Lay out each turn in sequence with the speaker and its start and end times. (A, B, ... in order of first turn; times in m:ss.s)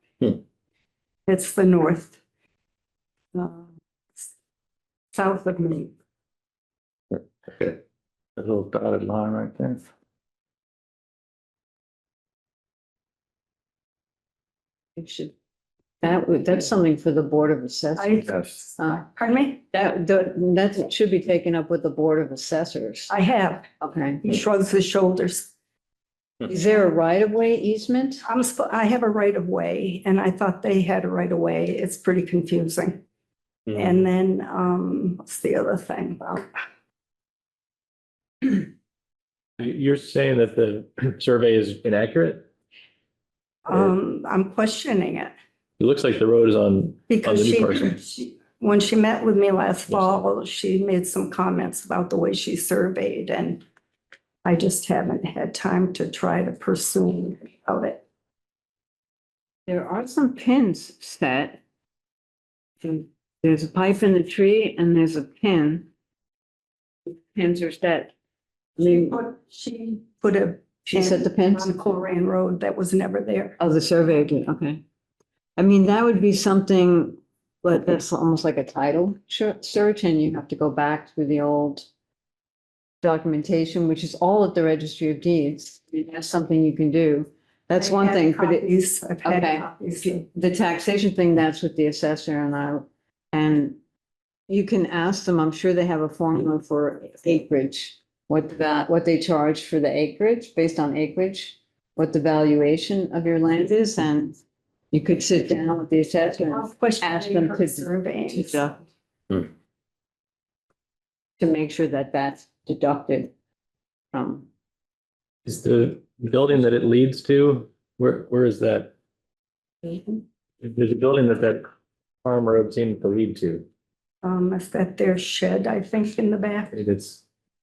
0:01.3-0:02.2 A
0:03.3-0:04.3 A
0:05.1-0:05.9 A
0:07.5-0:07.8 B
0:08.4-0:09.9 B
0:15.0-0:15.3 C
0:16.0-0:18.3 C
0:18.0-0:19.6 A
0:18.3-0:18.6 B
0:18.8-0:19.0 C
0:19.7-0:23.1 C
0:23.1-0:23.7 A
0:23.8-0:24.2 C
0:24.2-0:25.5 A
0:26.4-0:28.2 C
0:28.2-0:33.0 A
0:33.7-0:36.5 A
0:39.6-0:42.5 D
0:43.7-0:45.3 A
0:45.8-0:48.0 D
0:47.1-0:53.6 A
0:49.9-0:50.2 D
0:54.4-0:58.0 A
0:59.7-1:01.6 C
1:02.8-1:05.9 C
1:07.3-1:08.1 C
1:08.8-1:09.2 C
1:08.8-1:13.6 A
1:10.9-1:11.8 C
1:13.6-1:14.8 C
1:15.6-1:21.9 C
1:23.0-1:28.7 C
1:27.8-1:30.3 A
1:29.2-1:29.7 C
1:30.3-1:33.8 C
1:34.5-1:44.4 C
1:44.9-1:48.8 C
1:46.5-1:48.7 A
1:51.4-1:53.3 C
1:54.1-1:54.5 C
1:55.5-1:58.9 D
2:00.6-2:01.7 D
2:02.2-2:03.7 D
2:04.2-2:06.8 A
2:06.7-2:07.2 D